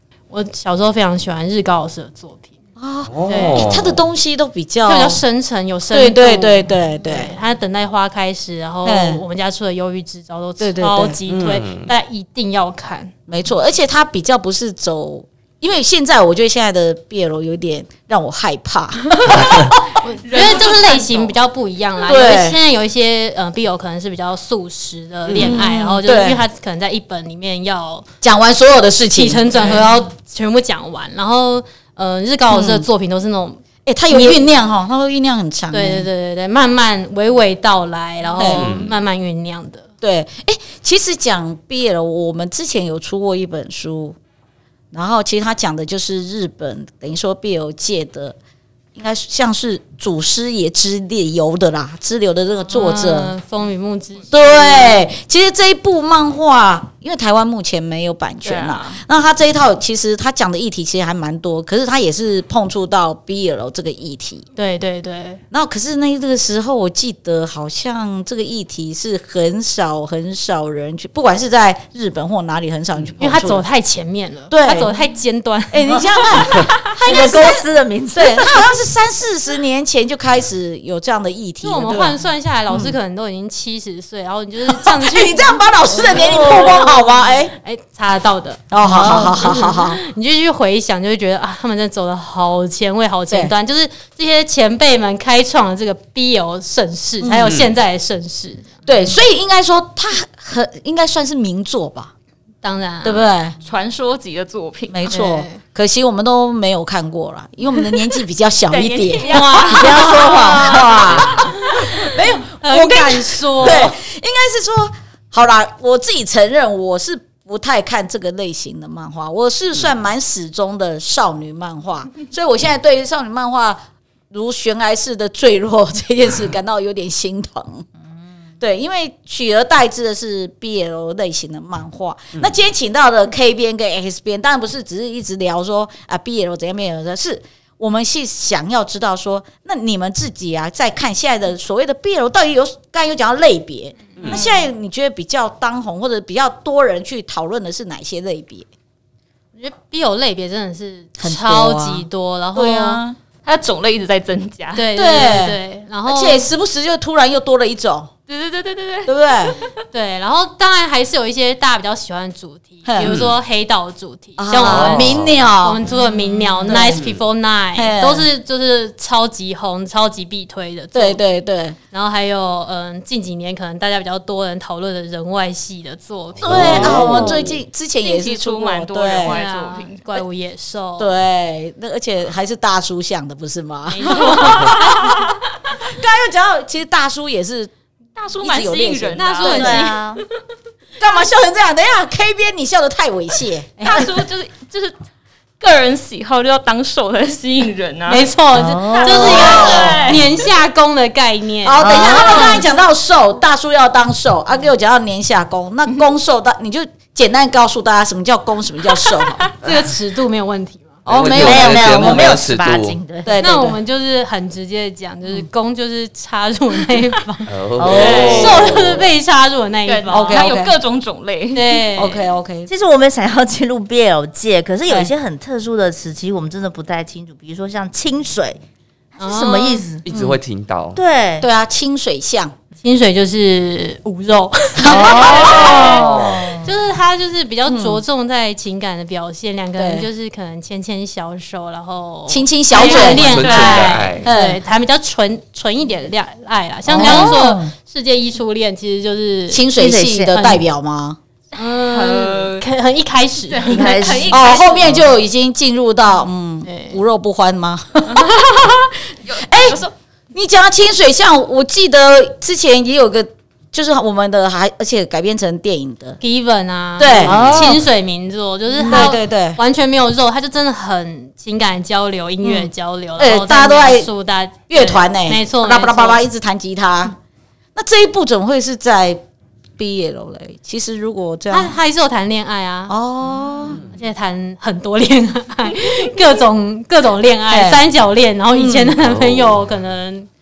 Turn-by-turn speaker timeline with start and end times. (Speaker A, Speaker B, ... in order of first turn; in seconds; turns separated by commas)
Speaker A: 0.3-2.5, Speaker B: 2.8-5.2, Speaker C: 3.1-4.0, Speaker A: 3.3-3.7, Speaker A: 4.8-13.1, Speaker B: 5.9-7.3, Speaker B: 8.8-9.2, Speaker B: 10.6-11.2, Speaker C: 11.3-11.9, Speaker B: 13.3-19.9, Speaker A: 20.0-28.1, Speaker D: 20.2-21.3, Speaker B: 22.1-22.6, Speaker B: 25.3-26.4, Speaker B: 28.2-29.8, Speaker A: 29.1-34.4, Speaker B: 32.5-32.9, Speaker B: 33.9-36.1, Speaker A: 35.7-39.9, Speaker B: 38.4-38.7, Speaker C: 38.5-39.0, Speaker B: 40.0-44.2, Speaker B: 44.9-48.4, Speaker B: 48.9-53.3, Speaker A: 52.7-55.0, Speaker B: 54.3-64.4, Speaker D: 58.4-59.0, Speaker A: 64.5-65.4, Speaker B: 65.5-73.6, Speaker A: 73.2-76.3, Speaker B: 74.5-74.9, Speaker B: 75.7-82.2, Speaker E: 77.0-78.6, Speaker A: 77.1-77.4, Speaker A: 81.6-85.6, Speaker B: 82.7-82.9, Speaker B: 84.7-87.5, Speaker E: 86.1-86.9, Speaker A: 86.1-86.9, Speaker A: 87.6-98.7, Speaker B: 88.7-90.0, Speaker E: 89.0-89.3, Speaker B: 97.2-97.6, Speaker C: 97.5-97.7, Speaker B: 98.8-102.1, Speaker A: 102.6-103.3, Speaker B: 103.0-103.6, Speaker D: 103.6-105.0, Speaker B: 104.9-127.8, Speaker A: 105.1-105.6, Speaker D: 108.7-111.2, Speaker A: 109.2-110.9, Speaker E: 109.7-110.8, Speaker A: 111.7-113.9, Speaker B: 128.6-148.7, Speaker D: 144.3-144.6, Speaker A: 149.6-153.0, Speaker B: 151.2-153.2, Speaker D: 153.4-154.8, Speaker A: 154.7-156.5, Speaker B: 154.9-158.1, Speaker D: 158.3-159.7, Speaker B: 159.1-159.6, Speaker A: 159.9-171.2, Speaker B: 162.8-163.2, Speaker C: 163.0-163.4, Speaker B: 164.4-165.8, Speaker C: 164.6-165.4, Speaker B: 166.7-167.0, Speaker C: 166.9-167.2, Speaker B: 167.8-168.3, Speaker B: 170.9-171.8, Speaker A: 171.9-177.2, Speaker C: 176.4-177.4, Speaker B: 176.4-179.4, Speaker D: 176.9-177.3, Speaker D: 178.0-180.2, Speaker A: 179.2-181.1, Speaker B: 181.0-184.8, Speaker A: 183.9-184.9, Speaker D: 184.1-185.4, Speaker B: 185.8-187.7, Speaker D: 188.2-190.0, Speaker B: 188.4-189.7, Speaker A: 189.2-190.0, Speaker E: 189.4-190.2, Speaker B: 191.0-194.0, Speaker D: 193.8-194.9, Speaker D: 195.6-198.3, Speaker A: 198.1-202.4, Speaker E: 198.5-200.0, Speaker D: 198.9-200.2, Speaker B: 199.2-200.2, Speaker B: 201.6-209.4, Speaker E: 201.8-202.6, Speaker D: 201.8-202.6, Speaker D: 209.1-209.4, Speaker A: 209.6-211.0, Speaker C: 211.0-213.0, Speaker B: 211.1-212.2, Speaker E: 211.3-213.3, Speaker B: 213.2-213.8, Speaker A: 213.4-217.5, Speaker C: 217.4-219.1, Speaker E: 217.8-218.8, Speaker D: 217.8-218.5, Speaker B: 218.1-218.8, Speaker A: 218.3-220.5, Speaker D: 219.8-221.8, Speaker B: 220.1-220.7, Speaker A: 221.5-222.2, Speaker B: 221.9-222.7, Speaker E: 222.7-228.6, Speaker A: 229.2-229.9, Speaker E: 229.2-230.0, Speaker C: 230.0-231.0, Speaker B: 230.1-230.4, Speaker E: 230.9-231.5, Speaker B: 231.4-232.5, Speaker A: 232.8-249.7, Speaker B: 234.8-236.6, Speaker E: 234.9-236.6, Speaker D: 235.1-236.0, Speaker B: 237.7-238.0, Speaker B: 239.8-240.1, Speaker B: 242.3-243.6, Speaker D: 242.8-243.8, Speaker C: 242.8-244.3, Speaker B: 244.2-244.6, Speaker B: 246.9-247.7, Speaker B: 249.5-251.2, Speaker E: 249.8-250.4, Speaker A: 250.3-250.6, Speaker A: 251.6-254.2, Speaker D: 251.6-252.6, Speaker D: 253.5-255.0, Speaker E: 253.6-254.4, Speaker B: 254.3-258.3, Speaker A: 256.6-257.0, Speaker D: 258.1-259.9, Speaker B: 259.4-259.8, Speaker B: 260.3-266.2, Speaker A: 266.2-276.2, Speaker B: 267.0-267.8, Speaker C: 267.2-267.8, Speaker B: 268.8-269.6, Speaker B: 272.4-274.1, Speaker B: 274.7-277.1, Speaker B: 277.7-279.2, Speaker B: 279.8-281.7, Speaker A: 281.5-282.9, Speaker B: 282.9-283.8, Speaker C: 283.7-283.9, Speaker A: 283.9-290.3, Speaker B: 287.5-287.8, Speaker B: 288.5-288.9, Speaker C: 289.0-289.6